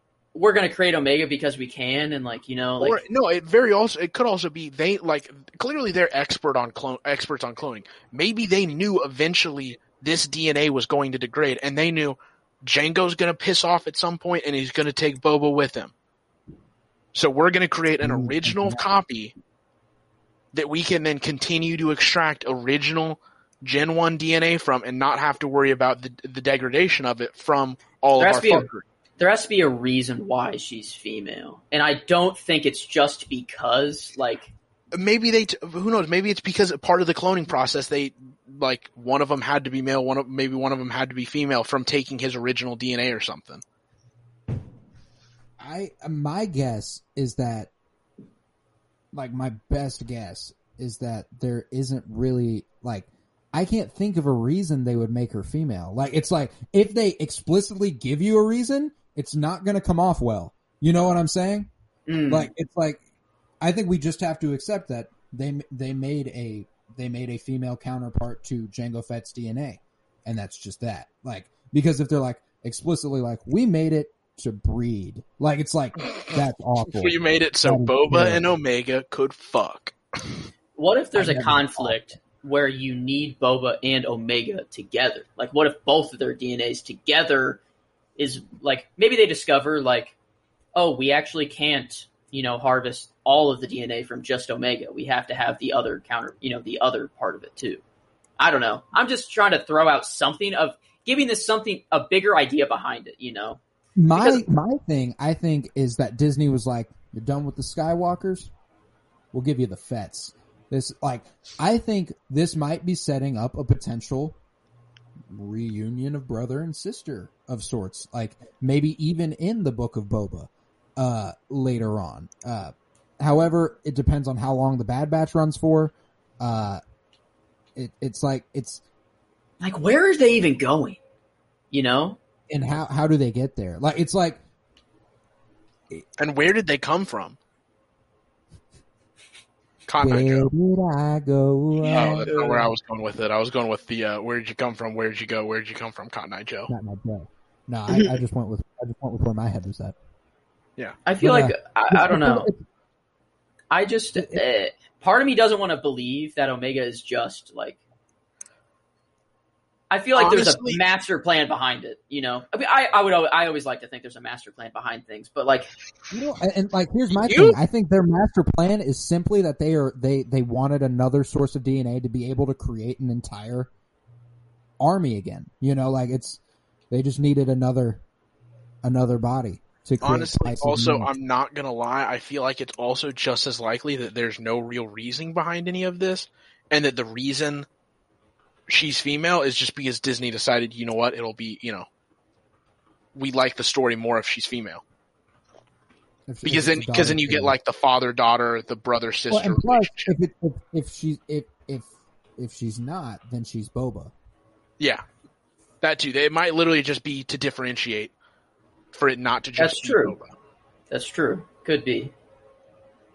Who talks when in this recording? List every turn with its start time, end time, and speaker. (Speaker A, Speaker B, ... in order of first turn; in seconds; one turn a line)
Speaker A: 0.3-3.0
Speaker B: 2.8-15.9
Speaker B: 17.1-19.3
Speaker C: 18.0-18.8
Speaker B: 20.5-28.8
Speaker A: 28.1-34.5
Speaker B: 34.9-43.6
Speaker C: 45.6-47.7
Speaker C: 49.1-61.7
Speaker A: 62.1-62.5
Speaker C: 62.3-63.0
Speaker C: 63.6-78.5
Speaker B: 76.9-79.9
Speaker A: 80.8-87.6
Speaker C: 81.1-82.0
Speaker A: 88.2-90.1
Speaker A: 90.7-97.8
Speaker A: 98.4-103.6
Speaker C: 104.0-108.5
Speaker A: 104.2-104.4
Speaker C: 109.3-114.4
Speaker C: 115.3-126.8
Speaker C: 127.8-128.8
Speaker A: 129.6-131.0
Speaker A: 131.7-132.2
Speaker C: 132.5-134.4
Speaker B: 136.2-137.4
Speaker B: 139.9-140.5
Speaker C: 140.0-142.4
Speaker A: 141.9-142.7
Speaker B: 141.9-146.7
Speaker C: 146.7-149.9
Speaker A: 151.0-152.5
Speaker C: 151.2-152.6
Speaker A: 153.7-157.8
Speaker C: 154.2-154.4
Speaker A: 159.9-165.7
Speaker B: 160.1-160.8
Speaker C: 166.1-173.7
Speaker B: 167.1-167.6
Speaker C: 174.8-178.0
Speaker C: 178.8-181.1
Speaker B: 180.0-187.7
Speaker B: 188.7-191.9
Speaker B: 193.1-194.8
Speaker C: 196.3-197.5
Speaker B: 196.4-200.1
Speaker C: 199.3-204.1
Speaker B: 205.8-208.1
Speaker B: 208.9-210.3
Speaker A: 209.6-210.2
Speaker A: 210.9-212.1